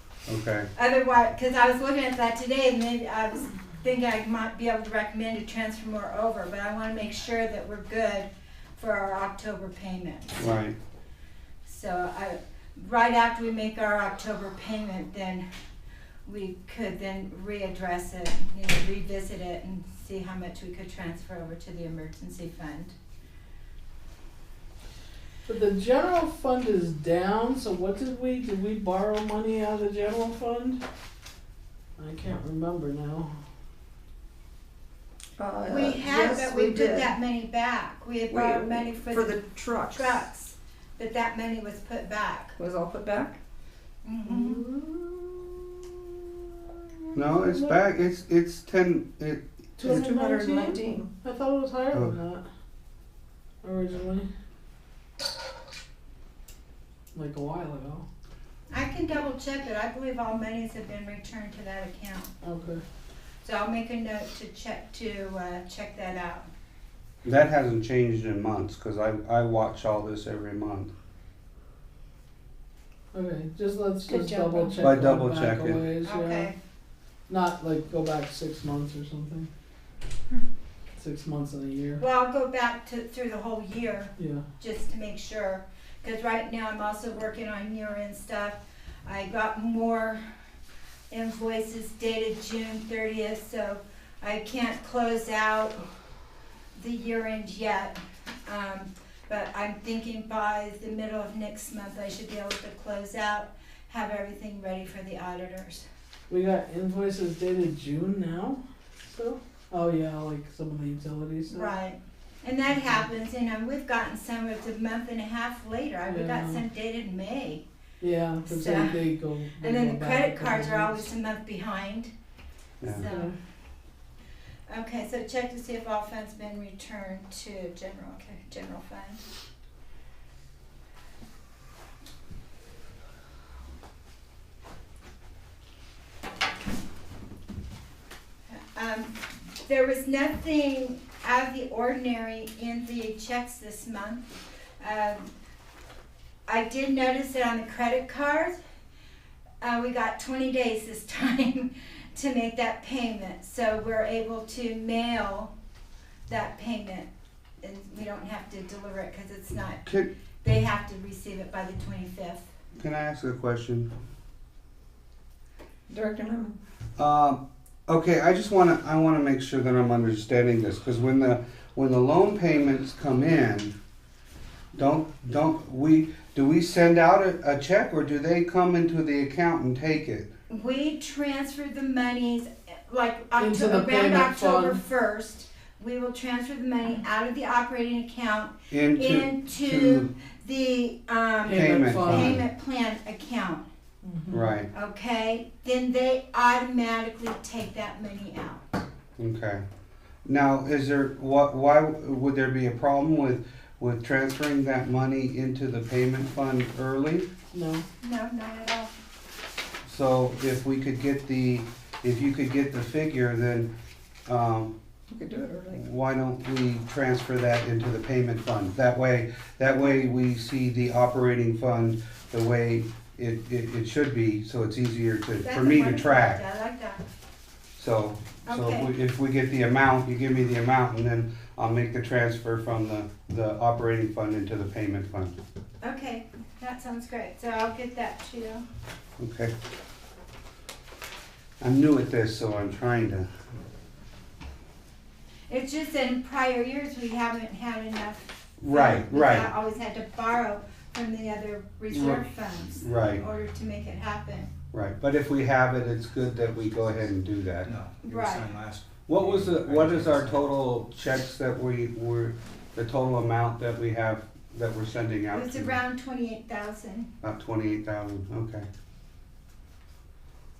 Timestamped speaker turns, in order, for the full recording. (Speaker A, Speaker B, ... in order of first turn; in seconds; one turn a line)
Speaker A: 0.3-0.7
Speaker B: 0.7-10.4
Speaker A: 10.4-10.8
Speaker B: 11.6-15.4
Speaker B: 16.2-22.9
Speaker C: 25.4-30.8
Speaker C: 32.0-33.4
Speaker D: 35.4-37.1
Speaker B: 35.6-42.6
Speaker D: 38.3-40.2
Speaker D: 42.6-43.4
Speaker B: 44.0-44.6
Speaker D: 44.5-45.2
Speaker A: 47.1-49.4
Speaker D: 49.8-51.1
Speaker C: 49.8-52.4
Speaker C: 53.6-54.3
Speaker C: 57.1-58.0
Speaker B: 58.7-62.3
Speaker C: 62.4-62.8
Speaker B: 63.4-66.5
Speaker A: 67.2-70.9
Speaker C: 73.1-76.5
Speaker D: 74.1-74.8
Speaker A: 74.8-75.8
Speaker B: 76.0-76.5
Speaker C: 77.3-79.5
Speaker C: 81.0-82.0
Speaker B: 82.0-90.2
Speaker C: 84.2-84.4
Speaker B: 91.1-95.9
Speaker B: 96.7-105.8
Speaker C: 106.3-111.8
Speaker B: 111.5-117.6
Speaker C: 116.1-116.6
Speaker C: 118.0-121.1
Speaker B: 118.4-119.0
Speaker B: 119.6-122.1
Speaker B: 122.8-123.3
Speaker C: 122.9-123.3
Speaker B: 124.7-129.2
Speaker B: 138.5-145.3
Speaker B: 146.5-148.6
Speaker B: 149.6-155.5
Speaker B: 156.3-157.1
Speaker B: 157.6-159.8
Speaker B: 160.4-162.4
Speaker A: 162.8-163.9
Speaker D: 165.9-166.6
Speaker A: 167.0-173.7
Speaker A: 174.7-180.3
Speaker B: 180.5-193.7
Speaker C: 183.4-184.8
Speaker A: 188.7-190.1
Speaker C: 191.4-192.4
Speaker A: 191.5-192.4
Speaker C: 194.0-194.5
Speaker A: 194.3-194.7
Speaker B: 194.7-198.8
Speaker A: 199.2-199.6
Speaker A: 200.2-207.3
Speaker C: 207.5-207.8
Speaker B: 208.0-208.9
Speaker A: 209.8-213.7
Speaker A: 214.3-214.7
Speaker D: 215.1-215.8
Speaker A: 215.7-226.4
Speaker B: 225.4-227.0
Speaker A: 227.8-235.3
Speaker B: 228.4-228.9
Speaker B: 235.8-238.6
Speaker A: 239.2-239.5
Speaker A: 241.6-243.3
Speaker B: 245.5-254.5
Speaker A: 248.6-249.5
Speaker A: 251.9-252.2
Speaker A: 252.8-253.2
Speaker A: 254.7-257.7
Speaker E: 257.6-260.5
Speaker B: 258.0-258.5
Speaker A: 259.1-265.8
Speaker B: 265.3-267.1
Speaker A: 267.2-268.7